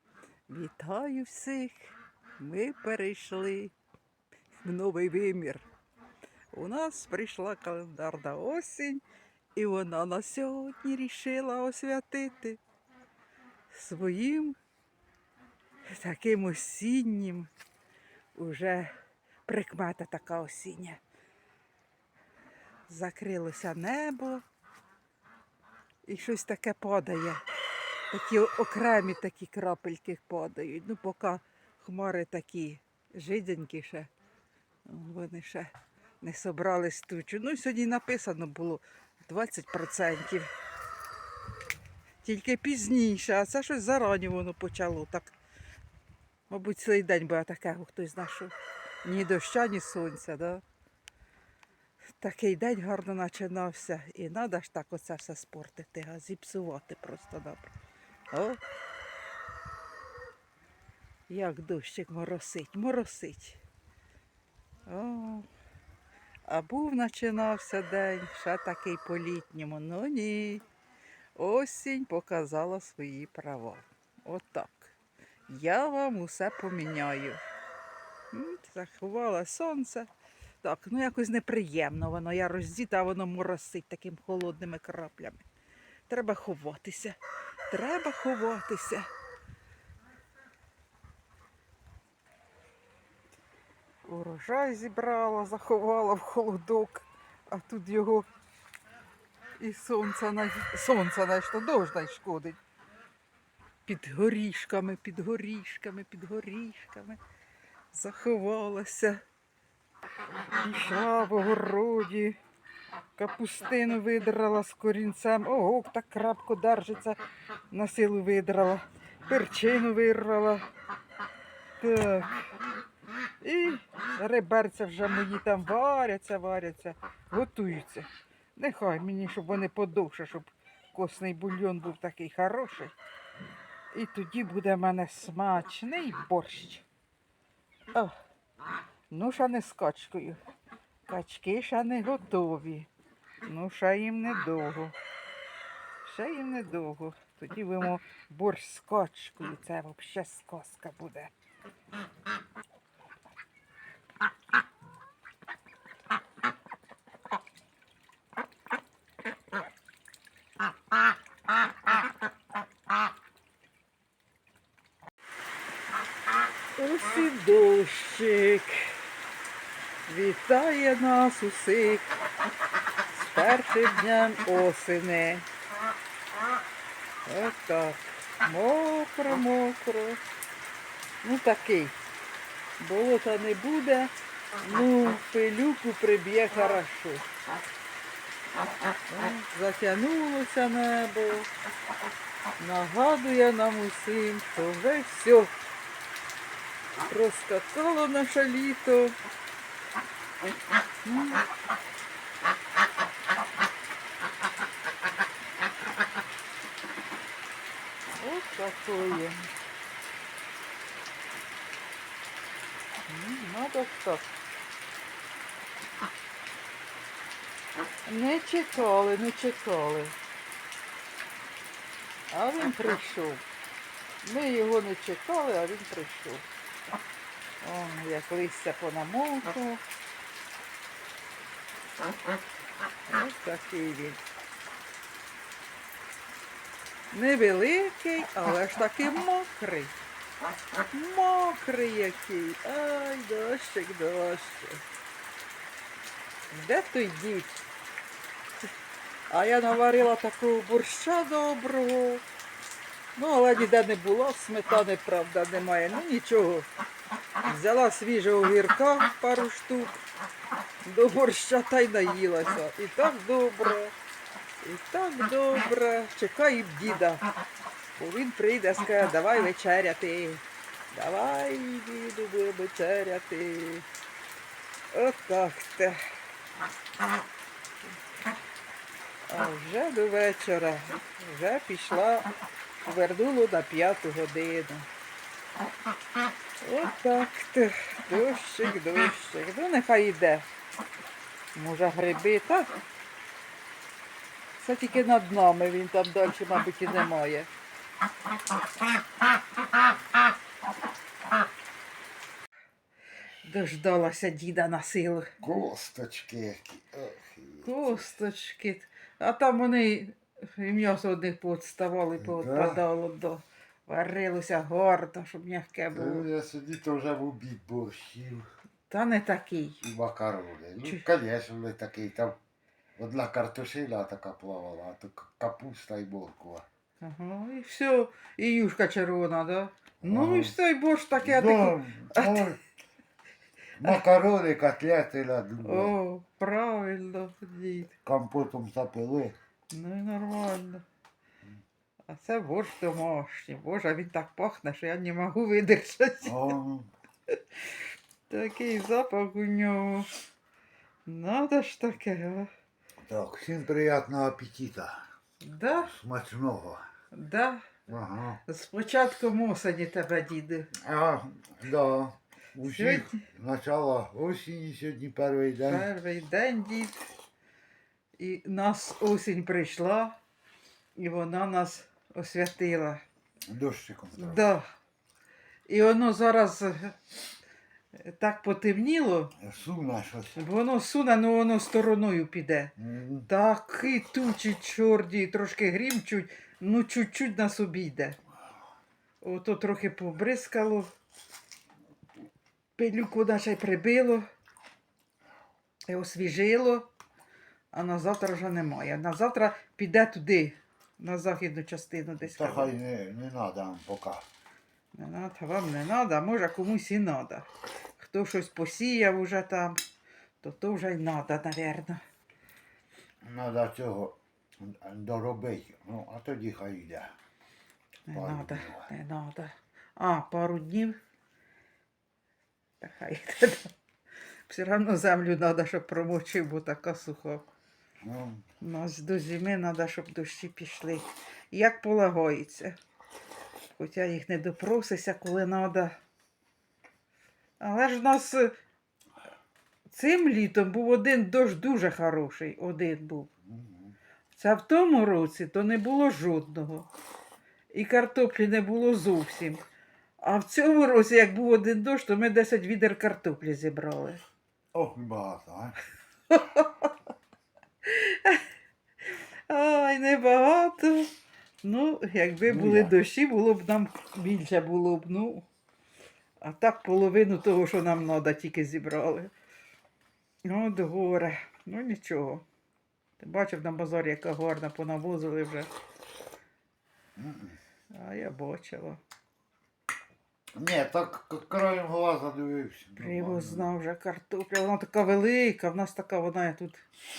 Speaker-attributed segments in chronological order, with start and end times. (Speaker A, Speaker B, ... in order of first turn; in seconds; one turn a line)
Speaker A: 0.5-3.7
Speaker A: 4.6-5.7
Speaker A: 6.5-9.0
Speaker A: 9.5-12.6
Speaker A: 13.7-14.6
Speaker A: 15.8-17.5
Speaker A: 18.3-18.9
Speaker A: 19.4-21.0
Speaker A: 22.9-24.4
Speaker A: 26.1-27.4
Speaker A: 28.1-34.1
Speaker A: 34.9-40.5
Speaker A: 42.2-45.3
Speaker A: 46.5-50.6
Speaker A: 52.2-57.7
Speaker A: 58.3-58.6
Speaker A: 61.3-63.6
Speaker A: 64.9-65.5
Speaker A: 66.5-70.6
Speaker A: 71.3-74.9
Speaker A: 75.5-77.4
Speaker A: 78.3-80.1
Speaker A: 80.6-85.5
Speaker A: 86.1-87.2
Speaker A: 87.7-89.1
Speaker A: 94.0-98.3
Speaker A: 99.6-102.6
Speaker A: 103.8-107.2
Speaker A: 107.9-109.2
Speaker A: 110.5-112.4
Speaker A: 113.2-117.2
Speaker A: 117.7-120.6
Speaker A: 121.8-122.4
Speaker A: 123.4-132.9
Speaker A: 133.9-136.8
Speaker A: 139.1-140.4
Speaker A: 141.1-142.9
Speaker A: 143.4-144.9
Speaker A: 146.0-151.3
Speaker A: 166.8-169.0
Speaker A: 170.1-172.2
Speaker A: 173.1-175.5
Speaker A: 177.2-180.2
Speaker A: 181.2-182.0
Speaker A: 182.8-187.2
Speaker A: 189.1-191.5
Speaker A: 192.6-195.5
Speaker A: 197.0-199.2
Speaker A: 201.0-201.4
Speaker A: 208.2-209.5
Speaker A: 213.1-214.3
Speaker A: 218.1-220.1
Speaker A: 222.3-223.4
Speaker A: 224.2-226.4
Speaker A: 227.6-229.8
Speaker A: 233.1-234.2
Speaker A: 237.1-239.9
Speaker A: 240.9-244.8
Speaker A: 246.5-247.6
Speaker A: 249.3-252.2
Speaker A: 253.2-256.7
Speaker A: 257.4-260.0
Speaker A: 260.8-263.9
Speaker A: 264.6-267.2
Speaker A: 267.9-273.9
Speaker A: 274.9-276.0
Speaker A: 279.3-282.3
Speaker A: 282.8-284.9
Speaker A: 286.6-290.5
Speaker A: 291.5-292.7
Speaker A: 294.6-297.5
Speaker A: 303.4-305.3
Speaker B: 305.4-308.1
Speaker A: 307.6-316.2
Speaker B: 312.2-312.8
Speaker B: 315.9-318.5
Speaker A: 318.9-319.8
Speaker B: 319.8-322.4
Speaker B: 323.0-326.6
Speaker A: 327.0-332.5
Speaker B: 330.0-330.5
Speaker B: 331.2-332.6
Speaker B: 333.8-335.9
Speaker A: 335.6-337.9
Speaker B: 338.0-339.4
Speaker A: 339.7-340.8
Speaker A: 342.1-346.5
Speaker B: 346.2-346.9
Speaker A: 347.3-350.1
Speaker A: 351.1-352.5
Speaker B: 353.0-355.1
Speaker A: 355.4-355.9
Speaker B: 355.8-356.8
Speaker A: 357.1-357.9
Speaker B: 357.9-358.4
Speaker A: 358.4-360.7
Speaker B: 360.7-365.9
Speaker A: 362.6-363.2
Speaker A: 365.6-367.1
Speaker A: 368.2-370.1
Speaker A: 371.0-373.0
Speaker B: 373.5-374.5
Speaker A: 374.1-374.7
Speaker A: 375.7-377.0
Speaker A: 377.9-379.3
Speaker B: 379.4-380.4
Speaker A: 380.4-382.7
Speaker B: 382.8-383.3
Speaker A: 383.3-388.2
Speaker A: 389.2-390.9
Speaker A: 392.8-394.3
Speaker A: 395.9-396.9
Speaker A: 397.7-402.7
Speaker B: 402.2-404.2
Speaker A: 404.9-409.8
Speaker A: 410.4-412.0
Speaker B: 413.2-417.1
Speaker A: 418.1-421.0
Speaker B: 418.1-418.9
Speaker A: 422.8-423.7
Speaker A: 424.5-427.5
Speaker B: 428.0-428.4
Speaker A: 428.6-432.8
Speaker A: 433.8-435.9
Speaker A: 437.6-438.5
Speaker A: 439.9-443.3
Speaker B: 443.4-443.9
Speaker A: 444.3-446.9
Speaker A: 447.7-449.6
Speaker A: 450.2-454.2
Speaker B: 454.7-455.8
Speaker A: 456.3-456.9
Speaker A: 457.8-458.4
Speaker A: 459.1-461.1
Speaker A: 461.6-465.4
Speaker B: 462.4-462.9
Speaker A: 466.4-469.3
Speaker A: 470.4-472.4
Speaker A: 473.2-475.7
Speaker B: 477.2-477.6
Speaker A: 477.9-479.0
Speaker B: 480.5-483.7
Speaker A: 482.9-486.8